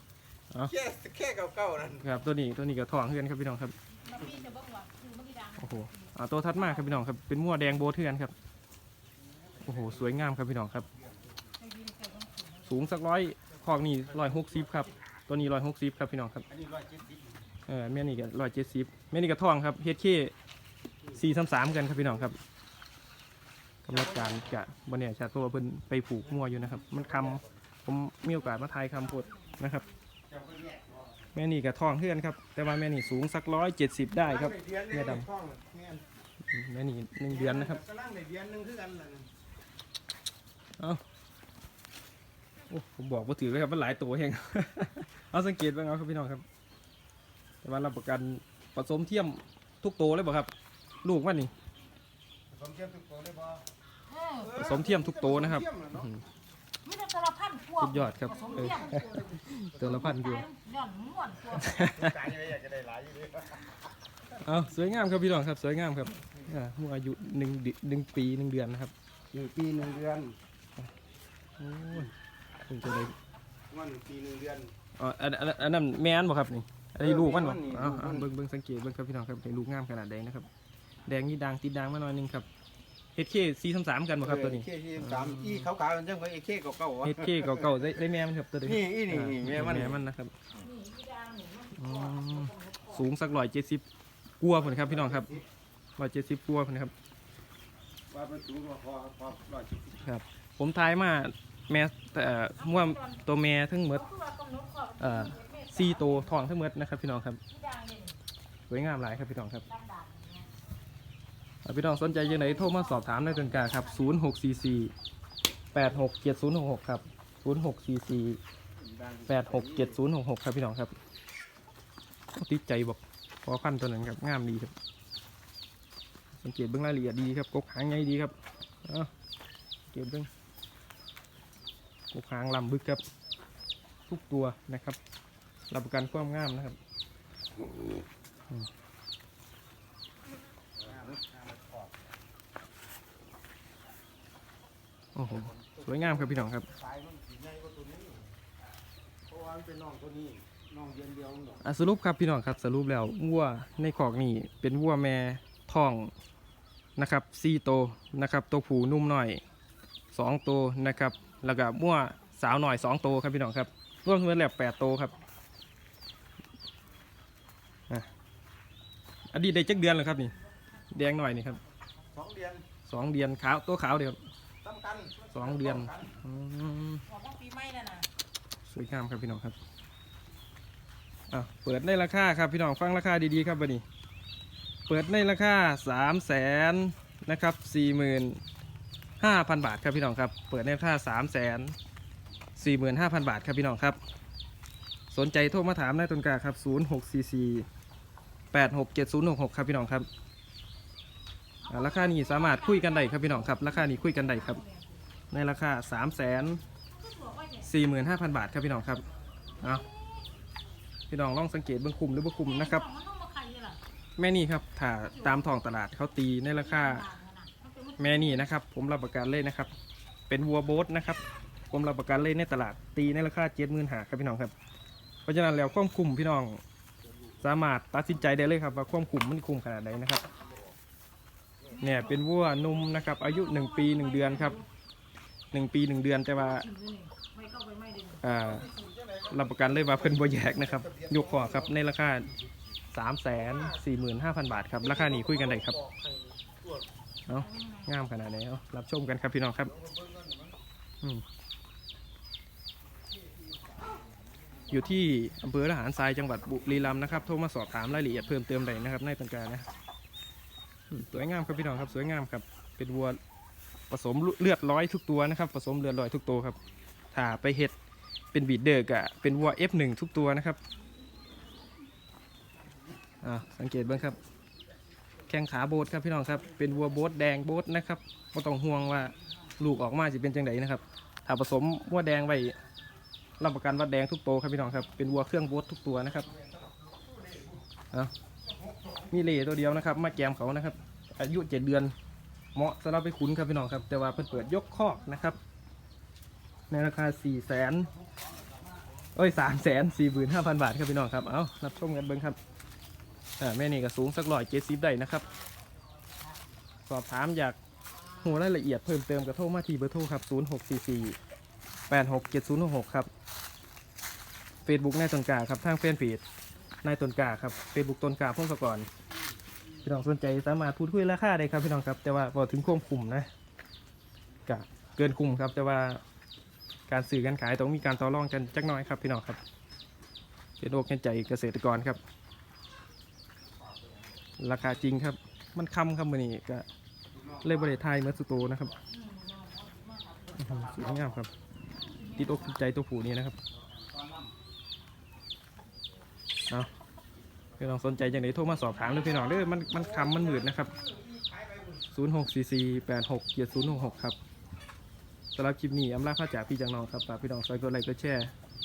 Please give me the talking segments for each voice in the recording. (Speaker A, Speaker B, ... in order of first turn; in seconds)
Speaker A: 0.6-2.1, 9.4-10.1, 11.0-11.3, 16.5-17.4, 23.9-24.4, 26.3-27.5, 30.3-31.2, 34.2-36.0, 37.3-39.3, 52.5-53.6, 54.4-56.1, 58.2-59.9, 61.7-63.8, 69.3-70.4, 73.7-74.7, 77.0-78.3, 84.2-87.9, 88.6-90.0, 94.5-95.4, 98.1-100.1, 118.8-120.0, 140.8-142.0, 145.3-148.3, 149.3-151.6, 172.1-172.6, 174.6-176.1, 238.4-241.8, 243.3-243.8, 244.7-246.9, 249.7-250.6, 286.3-287.6, 288.5-289.1, 337.1-337.7, 340.5-341.2, 343.6-344.3, 349.7-351.8
Speaker B: 2.0-3.8, 5.6-8.3, 9.6-10.9, 12.7-16.4, 17.7-20.3, 21.1-22.4, 23.9-29.9, 31.4-35.3, 36.5-37.8, 42.7-46.4, 47.6-50.5, 51.0-51.5, 54.6-56.2, 57.8-60.4, 61.5-62.1, 64.4-68.9, 71.6-72.1, 72.7-73.1, 75.0-80.5, 81.1-82.5, 83.1-85.7, 87.0-90.3, 91.8-93.8, 94.4-95.4, 96.0-96.9, 100.0-104.0, 105.0-107.4, 108.7-109.6, 111.6-114.9, 115.7-118.4, 119.3-120.9, 122.3-124.7, 126.4-128.3, 128.8-129.1, 129.9-130.3, 132.1-133.0, 134.1-135.0, 135.7-136.8, 145.1-146.7, 151.6-156.1, 157.0-159.4, 160.1-165.1, 169.3-170.3, 170.9-171.6, 172.9-174.2, 175.3-177.1, 178.7-179.6, 181.3-183.8, 184.9-188.4, 189.2-191.7, 192.6-194.0, 195.1-197.7, 198.5-200.1, 201.7-204.6, 205.3-206.6, 207.6-209.1, 211.1-212.8, 214.2-217.1, 218.0-219.7, 220.3-224.5, 225.2-226.6, 227.4-230.3, 231.8-234.6, 235.5-236.7, 238.2-238.7, 239.3-242.3, 242.9-245.7, 247.3-249.7, 254.7-259.7, 260.9-263.2, 263.9-266.6, 267.1-267.7, 268.3-270.6, 273.2-274.2, 275.3-282.6, 283.4-286.3, 289.1-291.9, 292.6-295.4, 296.7-297.9, 299.1-302.4, 303.4-305.3, 306.9-307.6, 308.2-311.2, 311.9-313.1, 314.6-316.2, 316.8-318.9, 319.8-323.3, 324.5-326.0, 326.9-329.4, 330.6-332.0, 334.4-336.7, 337.4-338.7, 340.3-341.3, 342.2-343.4, 347.6-350.7, 351.9-354.2, 355.3-358.3
Speaker C: 4.0-7.0, 11.6-12.9, 28.3-29.9, 54.1-54.6, 56.8-59.0, 59.8-61.8, 90.6-93.1, 102.6-103.2, 103.9-106.3, 107.5-108.2, 109.7-110.5, 112.1-114.3, 177.1-178.1, 201.7-205.0, 206.9-207.9, 209.6-210.2, 212.4-213.8, 215.0-215.6, 216.5-218.5, 231.7-234.7, 236.3-238.2, 247.4-247.9, 338.9-340.8, 341.7-342.5, 348.6-349.6